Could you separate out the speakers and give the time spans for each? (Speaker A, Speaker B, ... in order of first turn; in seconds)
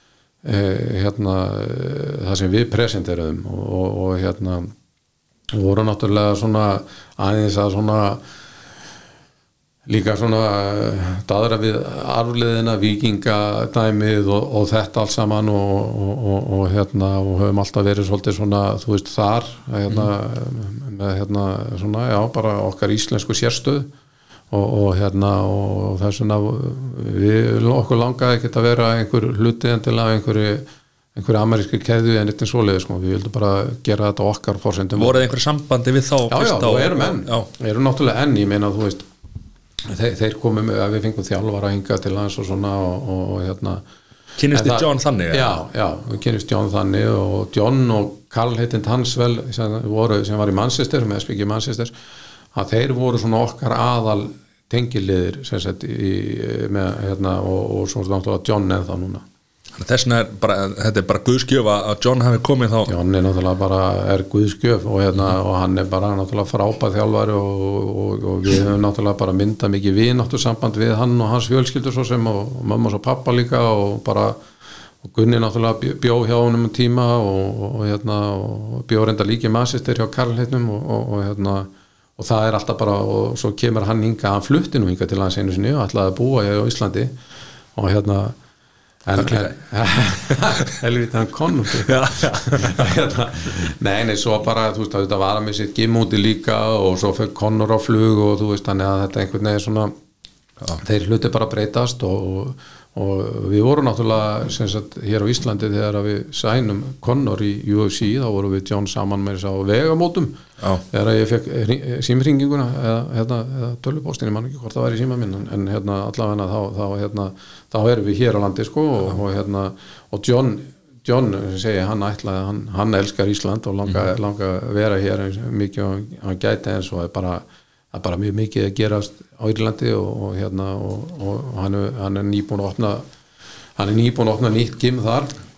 Speaker A: 0.4-4.7, 5.5-8.2, 9.9-23.9, 24.5-35.3, 36.3-39.1, 39.9-43.8, 44.5-51.9, 52.5-59.2, 62.9-74.4, 75.0-87.2, 87.8-88.4, 89.1-99.9, 100.8-110.4, 110.9-133.1, 133.8-135.4
Speaker B: 35.0-37.5, 44.4-45.6, 59.8-62.9, 89.2-89.5, 91.8-92.8